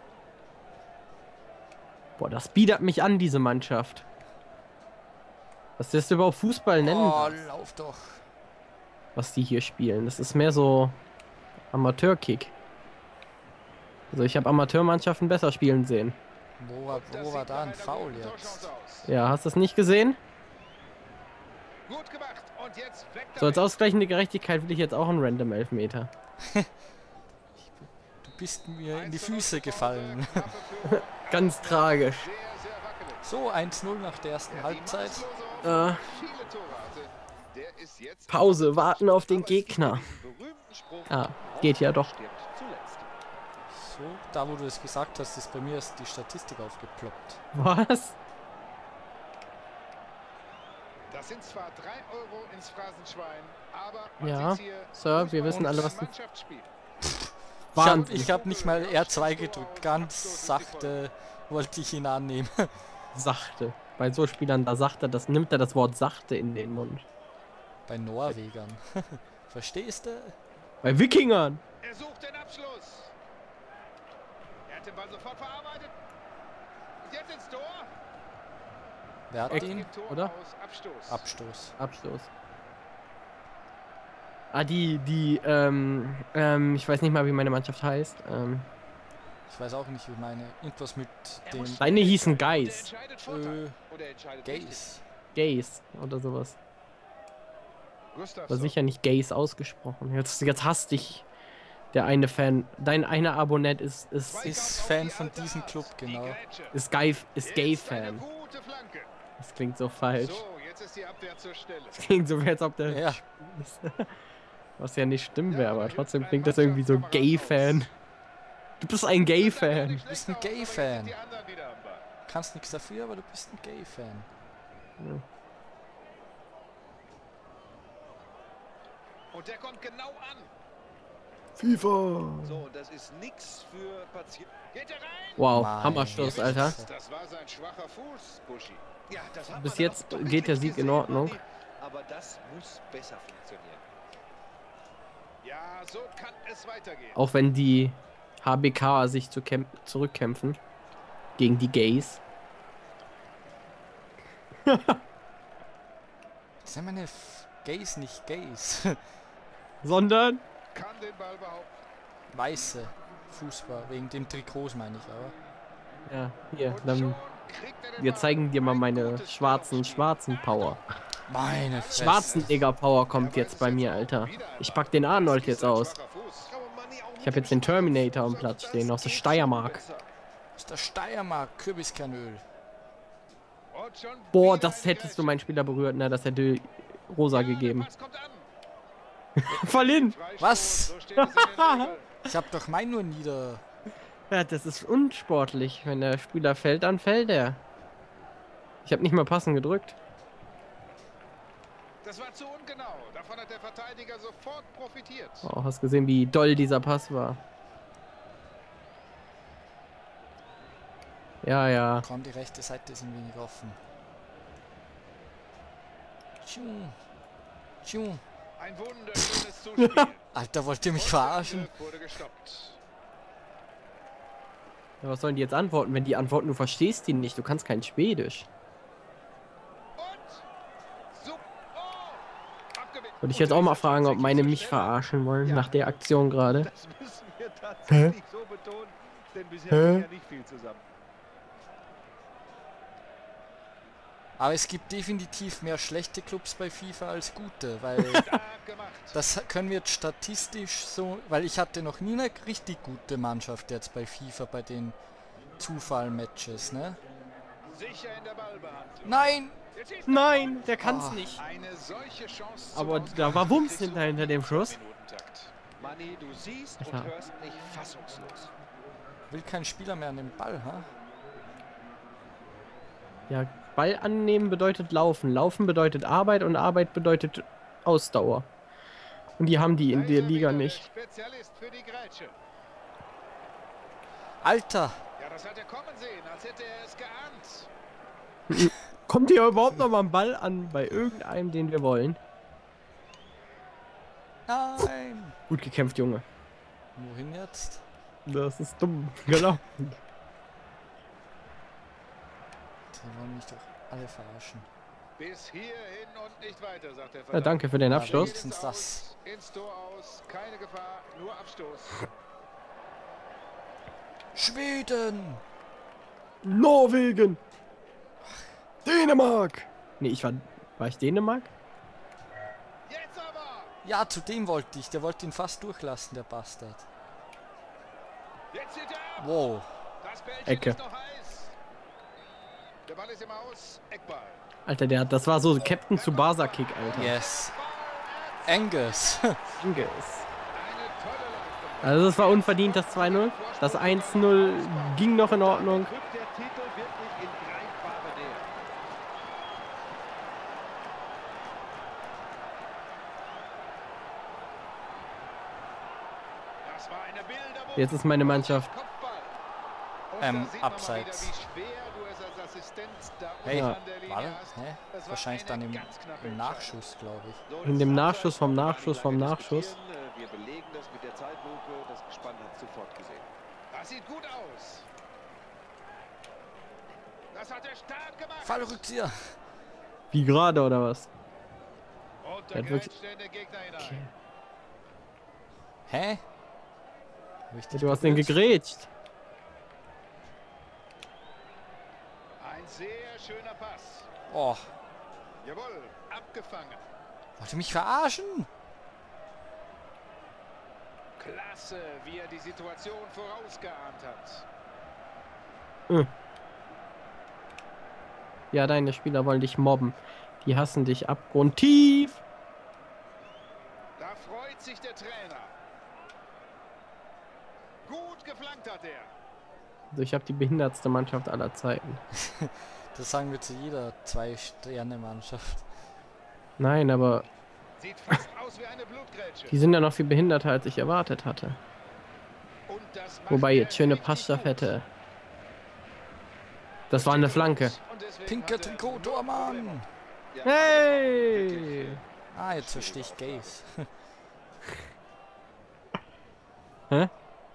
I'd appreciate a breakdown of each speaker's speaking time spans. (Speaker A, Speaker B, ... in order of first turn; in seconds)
Speaker A: 2.2-4.0, 5.8-7.4, 9.2-11.0, 11.7-12.5, 14.1-16.2, 19.1-20.2, 23.4-26.1, 30.9-32.3, 35.6-36.0, 38.3-40.1, 41.1-42.1, 47.5-48.1, 54.2-56.1, 57.7-58.3, 63.1-67.0, 70.8-71.6, 79.5-80.3, 81.8-82.3, 84.5-88.7, 91.8-92.9, 95.3-96.6, 98.5-101.2, 101.9-104.7, 106.7-108.2, 109.4-110.4, 111.9-114.1, 114.8-117.9, 118.8-120.0, 131.6-132.6, 135.4-136.8, 139.5-141.4, 147.1-150.6, 151.4-152.2, 154.7-155.0, 159.8-160.4, 166.1-167.2, 168.0-170.8, 171.9-176.0, 177.2-179.8, 184.3-187.9, 189.4-190.2, 191.2-191.9, 194.3-197.6, 198.8-199.9, 205.4-207.4, 211.4-212.1, 219.8-220.1, 225.0-228.5, 233.2-236.7, 239.7-240.0, 260.1-261.4, 262.7-264.7, 266.8-267.1, 273.3-278.5, 279.4-280.8, 288.5-292.2, 295.5-296.2, 298.2-300.0, 307.3-308.4, 316.4-317.4, 318.8-321.5, 330.5-330.8, 334.6-337.1, 339.6-340.2, 341.8-345.9, 357.8-358.7, 363.5-363.8, 367.6-369.8, 380.1-381.1, 382.5-382.9, 383.8-384.1, 387.7-388.9, 408.5-412.2, 419.9-422.0, 426.6-427.2, 429.5-431.6, 433.3-434.9, 436.9-437.8, 440.4-442.0
Speaker B: 6.8-8.2, 16.6-18.7, 27.6-30.5, 33.2-35.3, 43.7-47.4, 55.5-55.9, 57.0-62.7, 67.9-70.3, 79.3-79.9, 81.1-81.7, 89.5-92.0, 93.2-93.8, 94.4-95.0, 104.4-106.4, 112.9-113.2, 120.1-121.1, 122.3-124.3, 135.5-136.9, 156.6-159.0, 162.3-165.3, 171.3-172.6, 180.6-182.4, 190.4-190.9, 192.2-193.6, 212.0-213.8, 216.4-216.9, 217.8-218.2, 220.3-221.7, 244.4-248.4, 249.1-255.0, 255.6-257.0, 259.0-259.6, 260.8-261.3, 269.3-270.9, 284.4-285.0, 294.5-295.4, 296.9-297.8, 302.9-304.7, 307.9-309.0, 314.3-315.4, 323.8-326.9, 329.2-329.7, 336.9-337.6, 338.4-339.4, 360.2-361.3, 363.4-367.4, 378.4-379.1, 385.9-386.2, 387.5-388.4, 394.3-394.7, 397.4-398.5, 422.2-425.6, 438.2-439.9, 442.3-443.9
Speaker C: 16.9-19.1, 21.9-23.8, 28.9-33.2, 34.5-39.2, 51.1-56.7, 57.8-61.0, 71.8-73.1, 74.7-75.9, 77.0-77.9, 79.5-81.2, 91.5-94.8, 98.1-98.8, 104.3-106.8, 107.4-109.1, 110.1-112.0, 115.5-117.8, 119.3-122.0, 129.3-130.5, 134.7-135.5, 136.1-139.1, 145.4-147.2, 160.7-161.7, 166.7-170.8, 171.5-176.5, 183.7-185.3, 187.3-188.5, 189.5-192.1, 202.0-205.5, 218.6-220.2, 220.9-222.8, 230.0-230.4, 231.1-235.0, 248.1-249.2, 257.7-260.8, 261.3-265.5, 279.9-282.4, 285.2-287.7, 305.2-312.1, 322.9-323.7, 328.5-329.3, 330.0-331.5, 332.9-334.4, 335.9-339.6, 340.5-346.0, 356.6-359.3, 360.1-366.8, 373.7-374.9, 377.3-378.8, 382.2-384.0, 392.4-394.1, 395.4-396.8, 401.2-404.4, 414.0-415.5, 417.9-419.1, 427.8-429.5, 432.7-434.7, 436.9-439.9
Speaker D: 39.3-43.2, 132.4-134.5, 139.1-143.8, 176.5-180.1, 235.4-240.8, 265.8-268.5, 345.4-348.5, 367.5-373.3, 440.3-442.0, 442.6-443.5